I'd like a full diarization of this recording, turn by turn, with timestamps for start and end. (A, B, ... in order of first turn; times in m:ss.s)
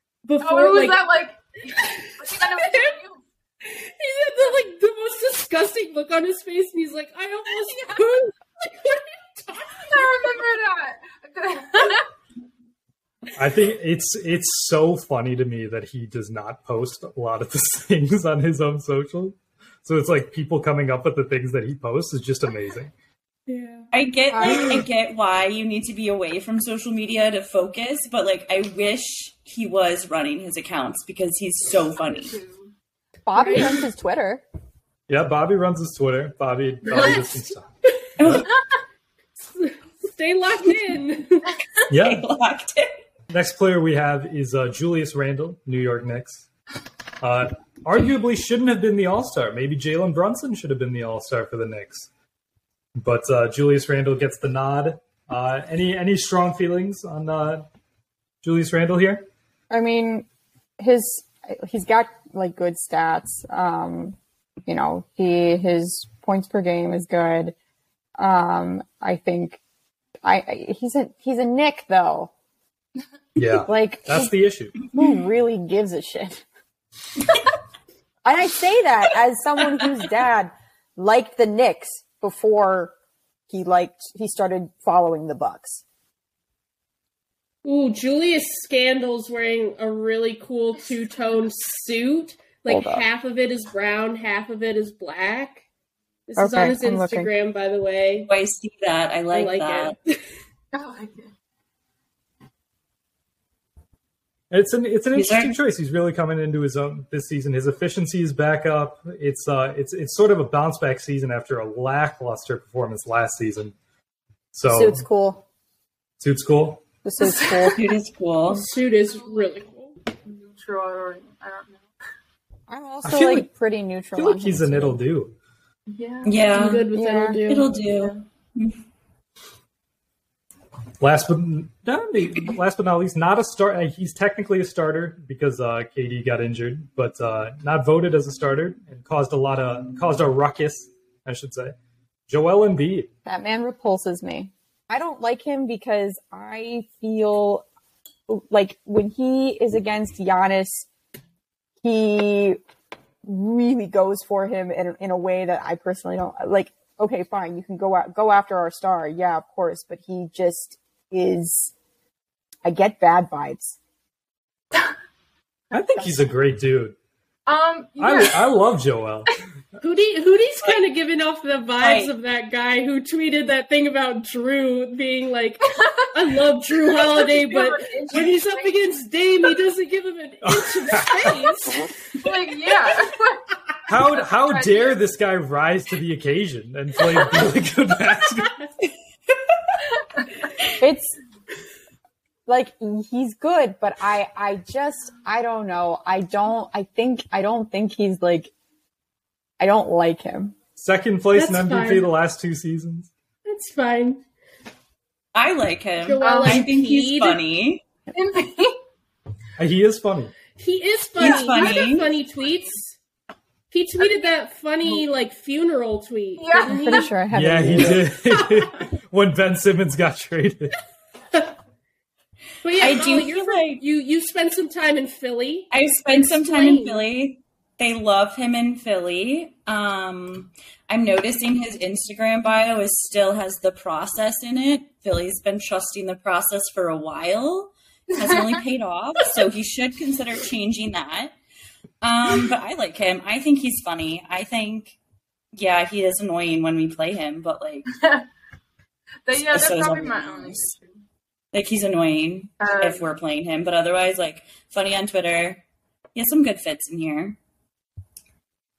0:00.2-0:01.1 A
0:00.4-0:03.2 B
0:02.0-0:03.0 A
0:03.6-0:10.4 A
0:09.8-0:12.0 B
0:13.3-0:22.9 C
0:23.5-0:23.8 A
0:23.9-0:32.4 D
0:24.3-0:24.8 E
0:32.0-0:32.7 B
0:33.2-0:34.4 E
0:33.4-0:33.8 A
0:35.1-0:37.7 C
0:36.9-0:37.2 B
0:38.2-0:38.5 D
0:38.2-0:38.5 C
0:39.4-0:41.5 A
0:41.9-0:42.2 C
0:41.9-0:43.0 D
0:43.3-0:46.5 C
0:47.2-0:52.1 C
0:53.0-0:57.7 C
0:58.4-0:59.3 C
0:59.7-1:00.2 E
1:00.8-1:07.5 E
1:08.2-1:09.6 E
1:10.2-1:12.3 E
1:13.4-1:14.7 C
1:13.7-1:14.3 E
1:14.9-1:16.4 E
1:18.2-1:22.9 E
1:23.5-1:25.8 E
1:27.6-1:35.6 A
1:32.7-1:33.0 E
1:36.3-1:38.3 A
1:36.4-1:37.3 E
1:38.3-1:40.0 D
1:39.3-1:40.2 A
1:40.7-1:41.3 B
1:44.5-1:53.7 C
1:45.1-1:45.6 D
1:54.5-1:55.0 C
1:54.7-1:55.4 E
1:56.2-1:56.9 C
1:57.0-1:57.8 E
1:57.7-1:58.6 D
1:58.5-2:00.0 A
1:59.0-1:59.6 B
2:00.2-2:01.8 B
2:02.7-2:05.0 E
2:03.0-2:03.5 C
2:04.2-2:05.3 C
2:05.9-2:06.4 B
2:06.2-2:06.9 D
2:06.5-2:07.7 A
2:06.9-2:07.4 E
2:07.5-2:08.8 D
2:07.8-2:08.2 B
2:11.0-2:21.7 C
2:22.3-2:23.1 C
2:23.2-2:27.6 E
2:28.3-2:30.9 E
2:31.8-2:32.6 E
2:33.2-2:41.7 E
2:42.6-2:43.8 E
2:45.7-2:47.0 C
2:47.4-2:48.5 B
2:48.0-2:49.3 C
2:49.8-3:01.9 A
2:51.8-2:52.1 D
2:56.8-2:58.8 B
3:00.4-3:01.4 C
3:02.2-3:05.0 B
3:03.9-3:08.6 C
3:10.8-3:11.2 E
3:12.5-3:18.5 E
3:19.6-3:20.6 E
3:20.8-3:23.1 C
3:21.3-3:22.1 A
3:23.4-3:24.2 A
3:25.3-3:27.8 D
3:26.0-3:27.4 A
3:26.2-3:26.7 B
3:28.1-3:28.8 B
3:29.6-3:30.3 C
3:30.6-3:33.0 A
3:31.2-3:32.1 D
3:31.2-3:31.8 B
3:33.7-3:37.1 A
3:36.4-3:37.1 B
3:36.6-3:38.1 E
3:37.3-3:40.7 C
3:38.3-3:38.6 A
3:42.6-3:47.0 A
3:42.8-3:43.8 D
3:45.7-4:01.3 D
3:58.1-3:58.4 B
4:02.0-4:05.0 D
4:05.5-4:07.9 D
4:07.9-4:08.2 B
4:09.2-4:11.0 B
4:09.3-4:10.7 D
4:11.5-4:15.6 D
4:12.6-4:13.1 B
4:16.1-4:17.4 D